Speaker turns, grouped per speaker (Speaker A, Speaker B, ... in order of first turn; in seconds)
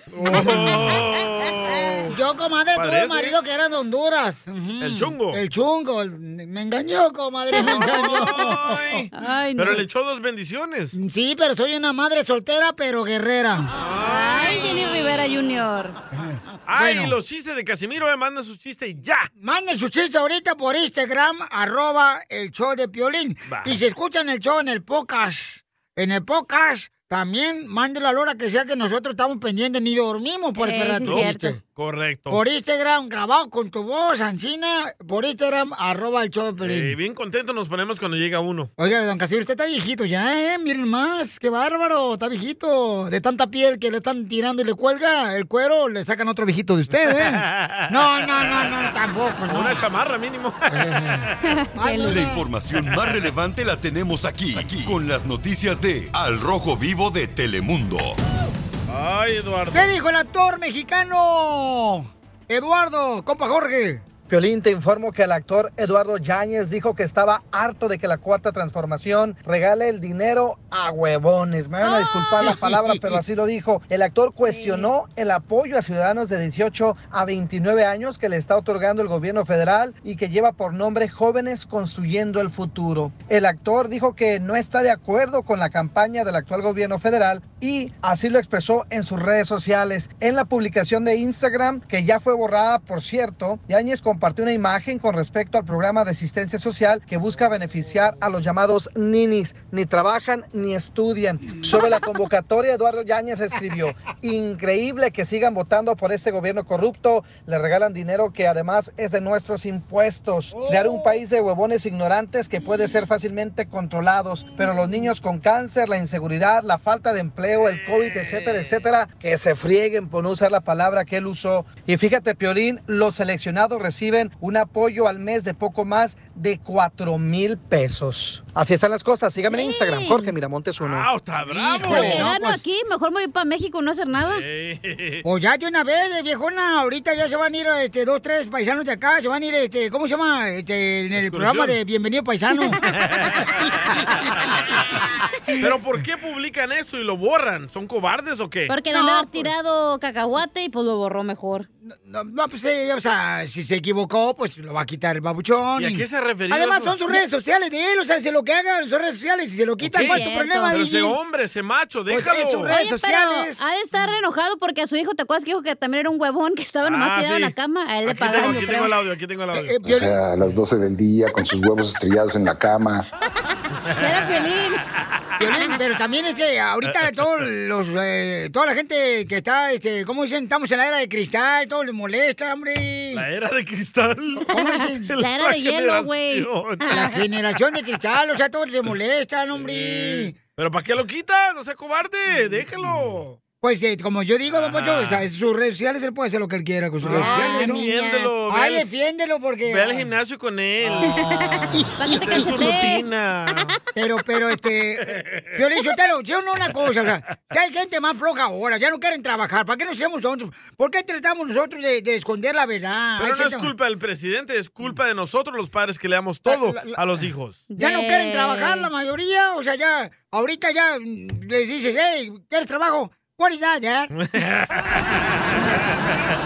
Speaker A: 0.1-2.1, 2.8-3.4, 4.8-5.4, 7.6-11.0, 13.8-14.6, 16.7-19.3, 23.5-23.8, 31.0-32.4, 36.6-38.7, 47.1-48.7, 49.5-51.4, 52.8-53.2, 58.9-59.9, 117.6-118.8, 130.8-132.3, 134.2-135.2, 141.2-141.8, 143.0-143.5, 145.6-148.8, 155.8-157.0, 159.8-162.7, 166.8-169.8, 173.8-174.2, 183.1-184.5, 185.1-187.0, 189.6-193.4, 194.5-195.3, 197.0-198.8, 199.7-203.8, 205.2-205.5, 213.2-217.6, 224.1-225.0
Speaker B: 0.2-1.0, 2.1-9.0, 10.9-15.1, 16.2-17.1, 19.4-31.6, 32.3-37.0, 38.8-49.8, 50.7-52.5, 59.7-64.0, 72.5-73.1, 110.5-111.2, 114.7-115.0, 131.5-132.7, 135.2-142.8, 148.9-149.4, 151.8-161.2, 162.1-163.7, 169.5-170.2, 175.4-183.2, 184.5-185.1, 186.9-190.3, 192.3-192.6, 193.6-197.8, 198.5-200.1, 200.8-202.8, 203.9-213.7, 216.5-217.0, 217.8-224.1
Speaker C: 7.5-8.4, 9.2-9.8, 14.2-16.0, 30.6-31.5, 51.4-52.2, 71.8-72.5, 74.4-74.9, 129.5-130.3, 131.9-134.4, 148.7-151.7, 160.0-160.8, 162.5-168.9, 173.9-174.8, 184.6-187.2, 197.2-198.4, 201.0-203.1, 217.7-218.9
Speaker D: 52.0-58.2
Speaker E: 64.3-131.1
Speaker F: 169.8-173.1